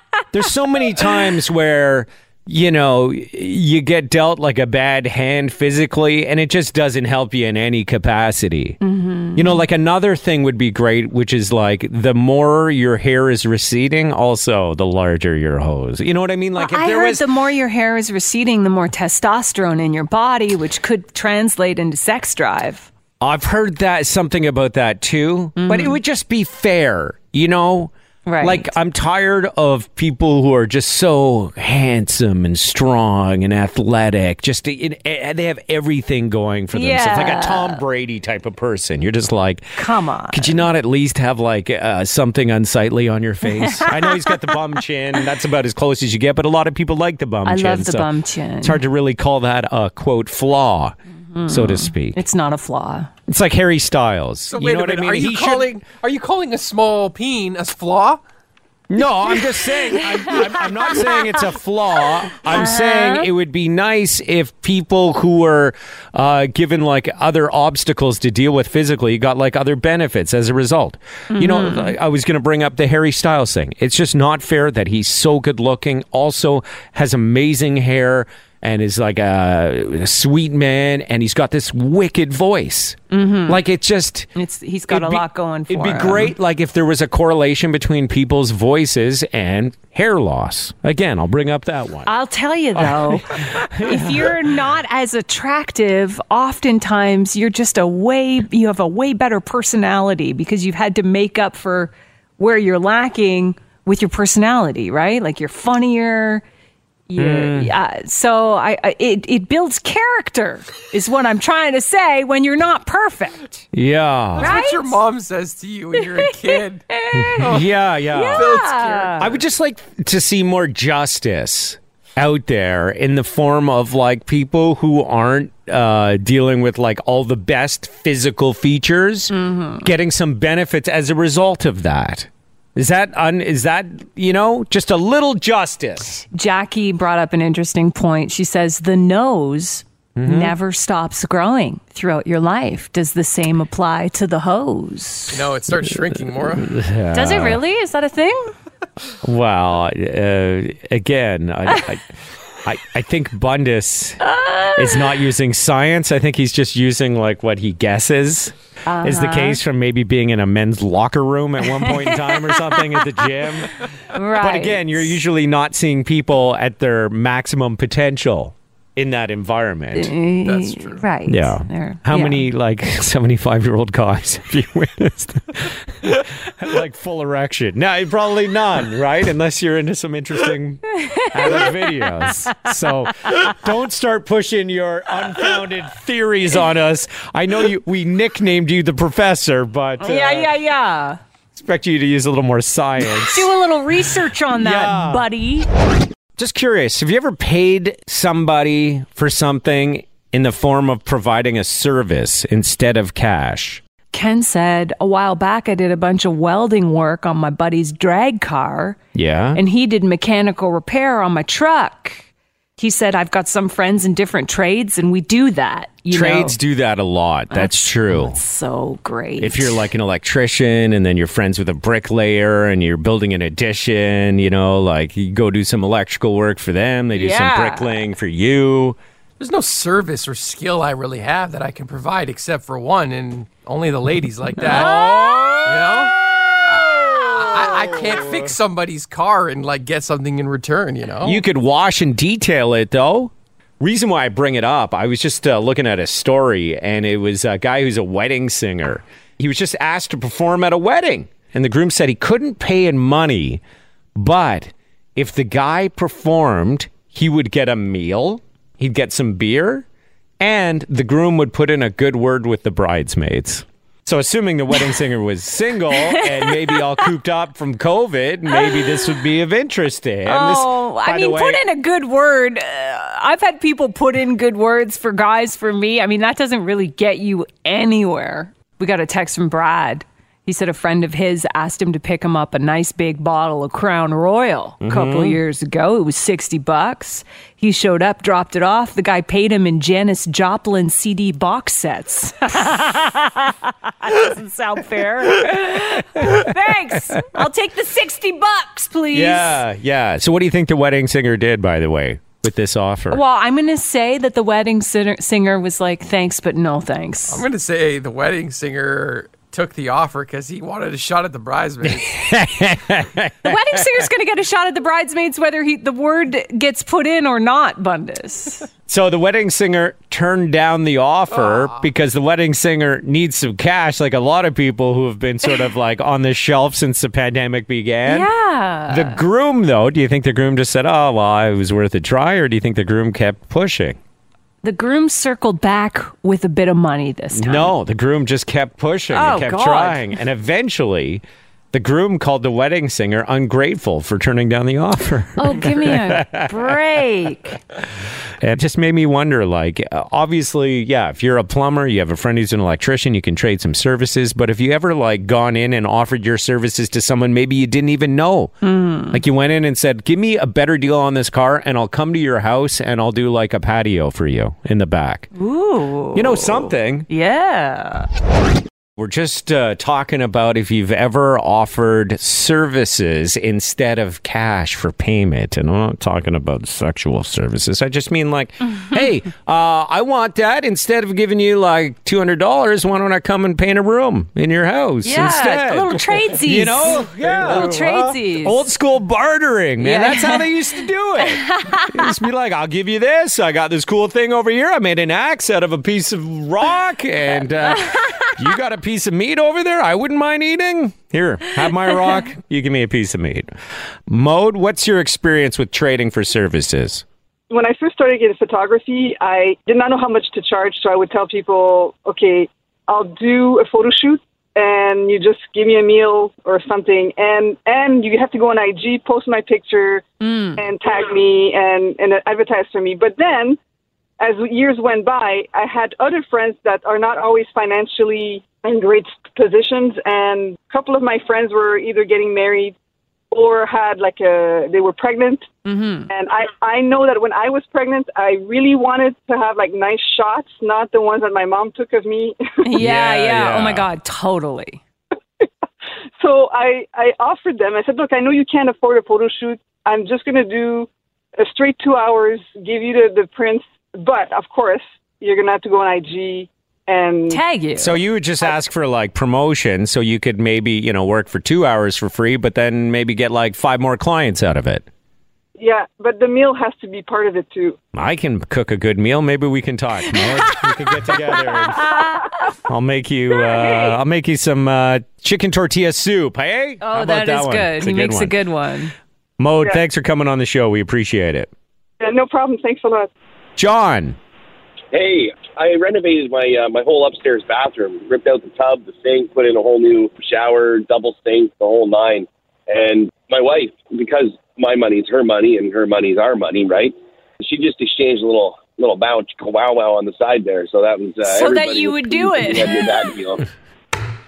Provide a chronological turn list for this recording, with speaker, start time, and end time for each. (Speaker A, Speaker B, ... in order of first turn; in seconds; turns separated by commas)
Speaker A: 0.3-8.8, Speaker B: 8.8-9.6, Speaker A: 9.3-17.2, Speaker B: 16.6-22.9, Speaker A: 23.2-39.7, Speaker B: 25.6-26.0, Speaker B: 28.2-28.7, Speaker B: 36.7-37.8, Speaker B: 39.8-40.6, Speaker A: 40.3-48.1, Speaker B: 43.6-44.5, Speaker B: 47.4-48.8, Speaker A: 48.6-51.0, Speaker B: 51.3-53.1, Speaker A: 51.5-52.2, Speaker A: 53.3-55.7, Speaker C: 54.5-58.2, Speaker A: 58.9-84.3, Speaker B: 59.9-61.3, Speaker B: 62.5-63.3, Speaker B: 71.3-72.0, Speaker B: 83.1-83.6, Speaker B: 84.3-86.3, Speaker A: 84.9-92.1, Speaker B: 92.0-106.4, Speaker A: 92.8-94.4, Speaker B: 107.1-113.6, Speaker A: 107.2-107.7, Speaker A: 113.7-114.5, Speaker C: 114.4-116.8, Speaker B: 114.4-115.0, Speaker B: 116.0-117.5, Speaker A: 117.1-118.5, Speaker C: 117.4-117.7, Speaker B: 118.1-119.2, Speaker C: 118.3-119.4, Speaker A: 119.2-136.2, Speaker B: 129.3-129.9, Speaker B: 136.3-145.4, Speaker A: 140.2-140.5, Speaker C: 145.3-146.7, Speaker A: 146.6-147.6, Speaker B: 147.1-148.5, Speaker A: 149.2-152.1, Speaker A: 152.6-154.2, Speaker B: 154.2-155.1, Speaker A: 154.7-163.8, Speaker B: 158.9-159.6, Speaker B: 161.8-162.5, Speaker B: 164.1-165.1, Speaker A: 164.3-170.1, Speaker B: 169.9-172.5, Speaker C: 170.4-171.0, Speaker A: 171.3-190.5, Speaker B: 180.9-181.7, Speaker B: 190.0-191.2, Speaker A: 191.5-193.5, Speaker B: 193.0-195.7, Speaker A: 194.5-195.2, Speaker A: 196.4-203.8, Speaker B: 204.1-209.0, Speaker A: 209.1-209.6, Speaker B: 209.5-212.2, Speaker B: 212.8-216.6, Speaker A: 216.1-218.4, Speaker B: 217.5-219.9, Speaker A: 219.4-229.0, Speaker B: 227.1-228.0, Speaker C: 229.4-241.4, Speaker A: 234.6-238.5, Speaker A: 241.2-253.6, Speaker A: 254.2-259.9, Speaker A: 260.4-271.6, Speaker B: 265.9-267.0, Speaker B: 268.5-269.1, Speaker B: 270.2-299.6, Speaker A: 284.8-285.4, Speaker A: 299.1-303.2, Speaker B: 303.1-307.4, Speaker C: 307.3-312.2, Speaker A: 311.8-314.0, Speaker B: 313.4-318.7, Speaker A: 318.9-328.3, Speaker C: 321.3-321.9, Speaker B: 328.1-329.2, Speaker A: 328.9-334.0, Speaker B: 334.6-337.7, Speaker A: 337.3-346.8, Speaker B: 339.1-340.1, Speaker B: 345.4-347.6, Speaker A: 348.4-358.6, Speaker B: 358.6-359.2, Speaker A: 359.1-365.3, Speaker B: 365.3-368.1, Speaker A: 366.1-367.1, Speaker A: 369.0-403.5, Speaker B: 385.0-388.6, Speaker B: 389.8-390.5, Speaker B: 391.2-392.1, Speaker B: 397.8-398.3, Speaker A: 404.1-407.0, Speaker D: 407.5-420.0, Speaker B: 420.2-420.6, Speaker D: 420.6-423.6, Speaker D: 424.2-432.7, Speaker D: 433.3-435.4, Speaker B: 435.6-436.1, Speaker D: 436.1-442.4, Speaker B: 442.6-444.8, Speaker A: 442.8-443.9, Speaker D: 446.2-457.4, Speaker B: 457.3-458.0, Speaker A: 457.8-464.9, Speaker D: 465.6-467.8, Speaker A: 467.9-472.0, Speaker B: 470.1-470.7, Speaker B: 471.7-472.5, Speaker A: 472.6-478.4, Speaker B: 476.8-478.9, Speaker A: 479.4-481.5, Speaker D: 482.0-483.1, Speaker A: 483.6-484.2, Speaker E: 484.9-503.5, Speaker B: 501.2-503.1